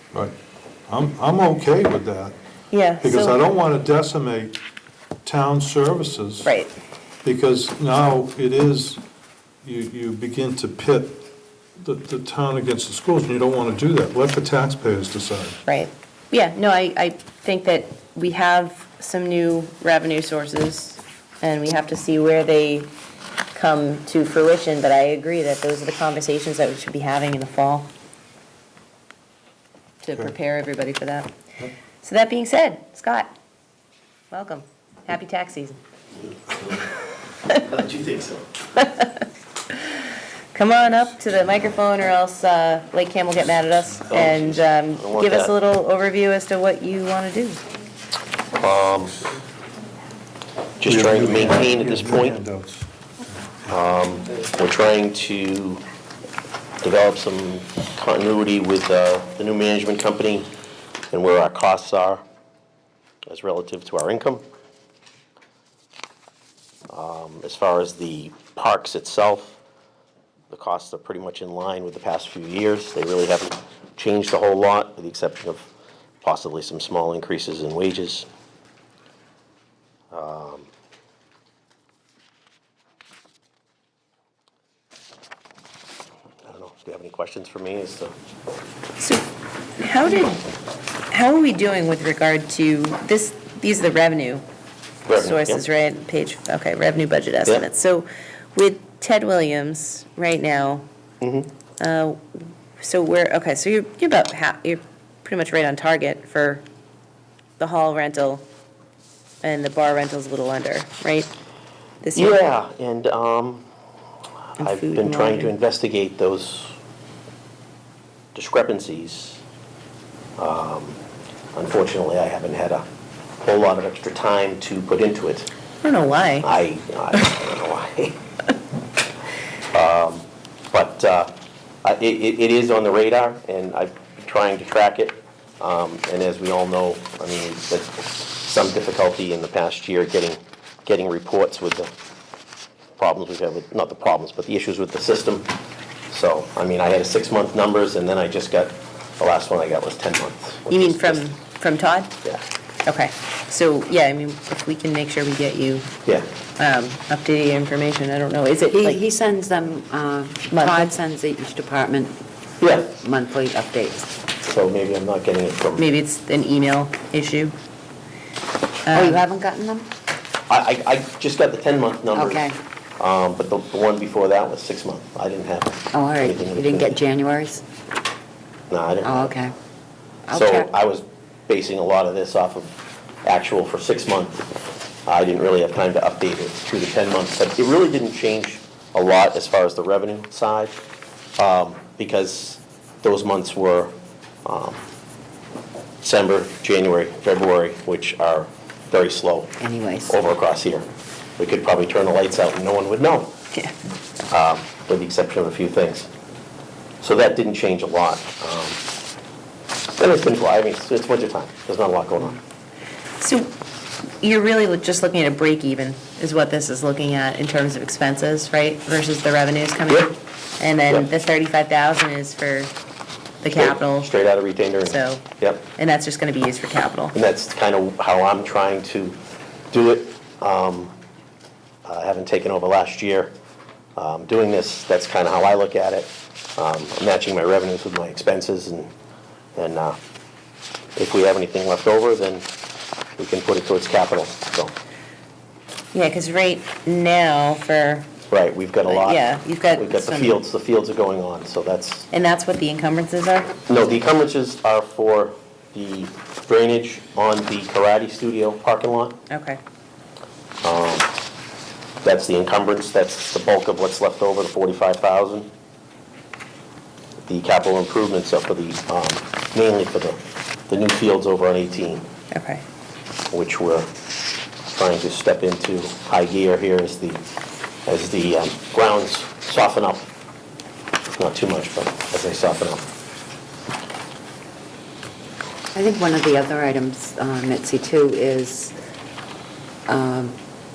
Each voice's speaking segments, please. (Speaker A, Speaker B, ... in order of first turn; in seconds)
Speaker A: 0.9-2.3, 3.0-4.6, 5.2-6.5, 7.2-9.0, 9.6-11.2, 11.8-15.6, 50.8-52.9
Speaker B: 2.7-3.4, 6.4-6.7, 15.7-22.9, 23.5-27.9, 30.0-31.3, 32.0-33.3, 34.3-35.8, 38.8-47.6, 89.0-89.2, 89.8-90.4, 91.1-94.4, 95.1-100.8, 101.8-106.6, 107.6-108.4, 109.4-111.3, 112.0-112.4, 114.6-115.5, 125.8-126.5, 150.7-152.1, 152.8-155.9, 156.6-159.0, 160.5-160.9, 165.8-167.5, 168.8-169.2, 213.2-213.5, 214.2-222.7, 223.4-224.1, 224.8-225.2, 225.8-227.1, 245.9-248.1, 248.8-250.4, 252.1-253.5, 259.3-259.6, 272.3-272.6
Speaker C: 37.7-38.5, 44.1-45.5, 48.5-49.3, 50.8-52.4, 53.7-55.8, 56.8-60.5, 61.1-62.2, 63.3-64.4, 66.9-69.6, 70.5-75.7, 76.2-78.3, 80.1-80.7, 86.5-88.1, 95.1-95.6, 101.2-101.5, 112.1-113.7, 114.6-116.7, 118.3-119.4, 120.4-121.0, 121.5-122.8, 123.4-125.5, 126.4-128.2, 129.7-131.3, 131.8-141.9, 143.0-145.5, 146.1-151.3, 162.6-162.9, 164.4-165.8, 170.5-177.0, 178.7-179.3, 180.3-182.7, 183.2-184.4, 185.1-190.8, 191.4-193.9, 194.4-194.8, 196.0-199.5, 200.1-200.8, 201.4-203.3, 204.3-206.1, 207.0-208.8, 210.0-212.4, 223.5-225.7, 227.1-229.2, 229.7-230.9, 231.8-233.3, 233.9-238.9, 239.6-240.0, 240.9-242.5, 243.2-244.7, 248.3-252.1, 253.7-259.2, 260.6-261.1, 262.0-265.5, 267.3-272.1, 273.3-273.9, 274.7-277.2, 277.9-280.1, 281.1-282.9
Speaker D: 158.7-162.2, 162.8-164.1, 168.9-169.9, 172.1-172.6, 175.9-177.6, 179.0-179.5, 180.3-180.7, 199.6-200.2, 285.7-288.7, 289.9-290.3